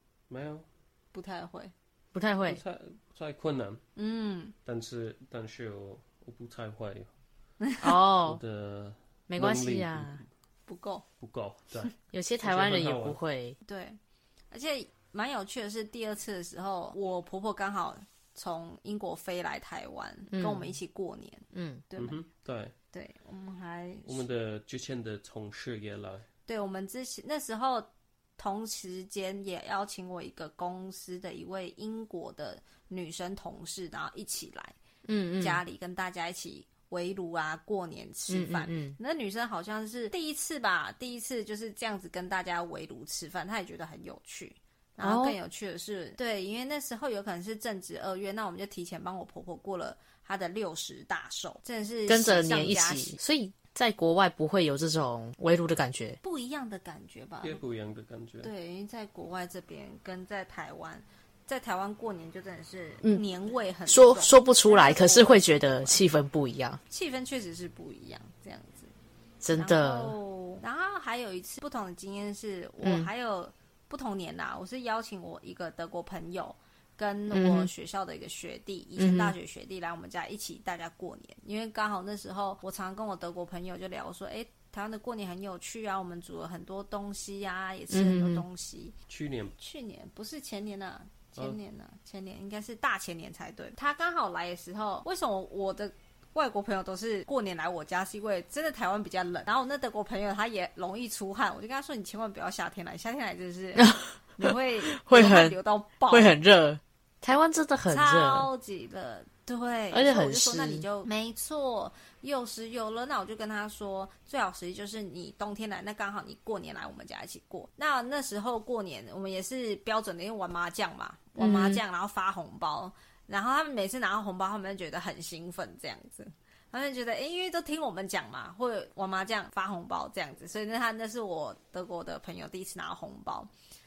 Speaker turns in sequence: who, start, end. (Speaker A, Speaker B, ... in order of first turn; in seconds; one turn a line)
Speaker A: 0.3-0.7
Speaker B: 1.1-1.7
Speaker C: 2.1-2.6
Speaker A: 2.5-3.8
Speaker B: 4.0-4.5
Speaker A: 4.7-7.1
Speaker B: 7.6-7.9
Speaker C: 7.8-8.4
Speaker A: 8.2-10.2
Speaker C: 9.3-10.2
Speaker B: 10.7-11.0
Speaker A: 11.2-13.2
Speaker C: 12.1-13.6
Speaker B: 13.6-14.0
Speaker B: 14.5-22.2
Speaker C: 20.3-20.8
Speaker C: 21.5-21.8
Speaker A: 22.0-22.7
Speaker B: 22.9-24.2
Speaker A: 24.1-26.2
Speaker B: 26.5-34.8
Speaker C: 35.0-35.6
Speaker B: 35.4-53.2
Speaker C: 38.3-39.0
Speaker C: 45.0-45.4
Speaker C: 52.1-56.2
Speaker B: 56.2-57.6
Speaker A: 57.4-58.5
Speaker B: 58.4-66.0
Speaker C: 63.9-66.8
Speaker B: 66.9-68.9
Speaker C: 69.4-70.1
Speaker B: 69.6-88.9
Speaker C: 72.8-73.1
Speaker C: 77.3-77.7
Speaker C: 79.0-79.3
Speaker C: 87.9-88.4
Speaker A: 89.1-89.5
Speaker B: 89.6-106.3
Speaker C: 103.8-105.5
Speaker C: 106.1-108.5
Speaker B: 107.9-133.5
Speaker C: 109.9-110.8
Speaker C: 121.4-121.8